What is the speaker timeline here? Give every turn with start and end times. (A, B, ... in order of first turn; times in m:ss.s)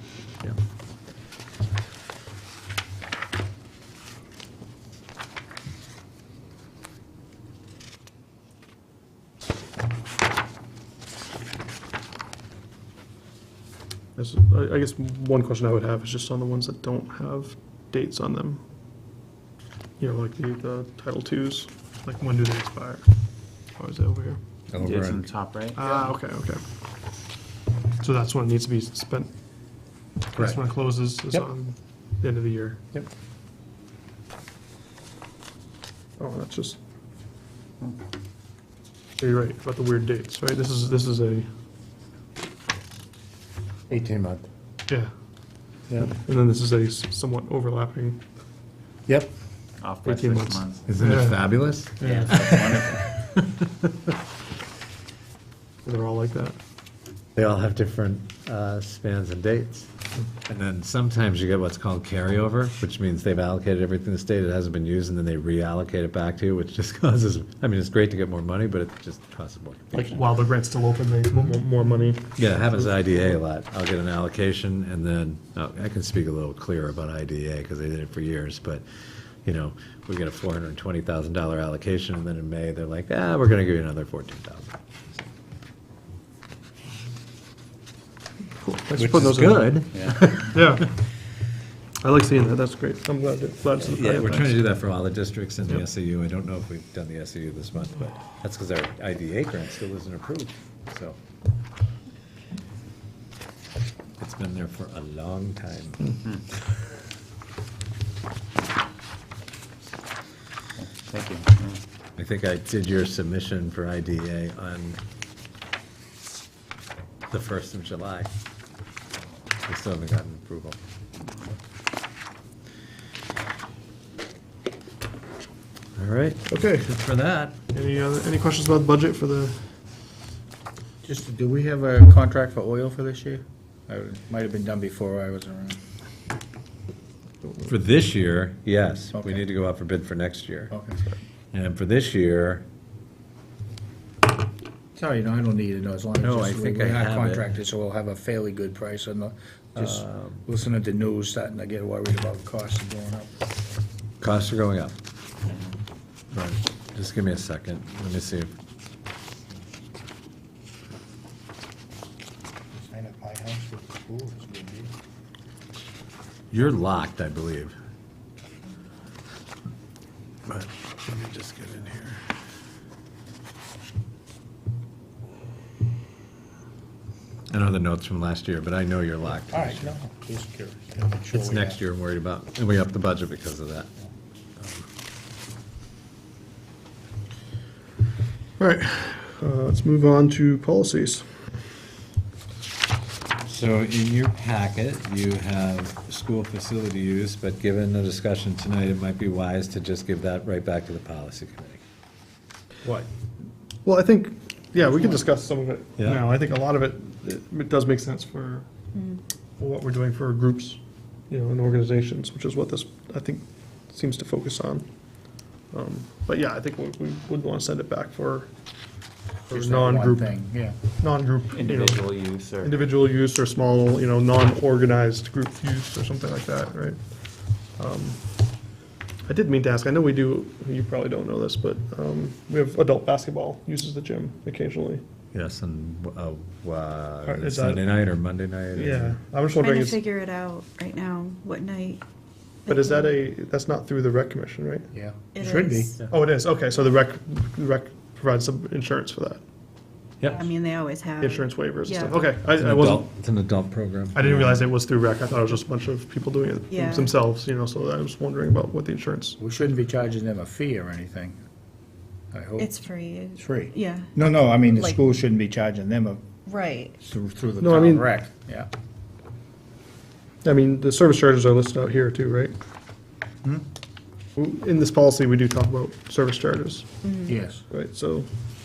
0:14.2-0:18.6 A
0:20.0-0:23.1 A
0:23.8-0:24.4 A
0:24.7-0:25.3 B
0:24.8-0:26.0 C
0:25.0-0:25.8 D
0:25.8-0:26.6 A
0:28.0-0:29.3 A
0:30.3-0:32.8 A
0:30.4-0:30.6 B
0:36.2-0:36.8 A
0:39.2-0:41.5 A
0:44.1-0:44.4 B
0:46.1-0:48.2 A
0:49.8-0:50.9 C
0:50.0-0:52.3 A
0:50.9-0:53.9 B
0:52.0-0:53.0 D
0:55.8-0:56.6 A
0:57.4-0:59.9 B
1:00.4-1:10.0 B
1:09.9-1:12.9 A
1:12.4-1:18.8 B
1:19.4-1:25.2 B
1:28.6-1:30.9 A
1:28.9-1:30.9 B
1:29.9-1:30.4 D
1:32.0-1:34.5 A
1:33.8-1:41.2 B
1:44.2-1:46.2 B
1:50.9-1:51.7 D
1:52.2-1:55.0 B
1:57.3-1:58.3 B
1:59.7-2:00.8 B
2:06.0-2:07.5 B
2:06.4-2:06.9 A
2:07.7-2:09.7 A
2:11.0-2:15.8 D
2:17.6-2:20.7 B
2:19.1-2:19.4 D
2:20.7-2:21.0 D
2:21.5-2:22.6 B
2:24.9-2:33.3 D
2:26.2-2:27.4 B
2:29.8-2:30.4 B
2:34.2-2:35.0 B
2:36.3-2:38.5 B
2:42.7-2:44.9 D
2:46.5-2:47.8 B
2:50.4-2:52.2 B
2:57.5-2:59.9 B
2:59.4-3:01.8 D
3:01.3-3:03.9 B
3:04.6-3:04.8 B
3:08.6-3:11.2 A
3:13.4-3:21.8 B
3:23.8-3:28.7 A
3:24.8-3:25.2 D
3:26.0-3:26.2 B
3:28.9-3:29.2 E
3:29.6-3:34.9 A
3:35.7-3:38.5 A
3:39.4-3:40.3 A
3:39.5-3:40.8 D
3:41.0-3:42.1 A
3:41.5-3:42.9 C
3:42.6-3:47.0 A
3:47.8-3:48.2 A
3:49.2-3:55.0 A
3:55.3-3:59.2 B
3:57.2-3:57.8 A
3:58.7-4:00.0 A
3:59.5-4:02.0 E
4:02.7-4:03.1 E
4:02.7-4:04.9 A
4:04.9-4:06.0 D
4:05.3-4:06.0 E
4:06.1-4:09.4 A
4:10.2-4:10.4 B
4:10.2-4:12.2 E
4:11.2-4:13.0 A
4:12.5-4:14.6 B
4:14.1-4:19.4 A
4:16.7-4:17.1 E
4:19.4-4:21.4 D
4:22.3-4:22.7 D
4:22.6-4:25.0 E
4:23.4-4:26.2 D
4:26.4-4:27.0 E
4:27.0-4:28.7 D
4:27.6-4:28.0 A
4:30.4-4:32.6 A
4:34.4-4:36.9 A
4:37.0-4:37.4 E
4:37.3-4:37.6 D
4:37.7-4:38.3 A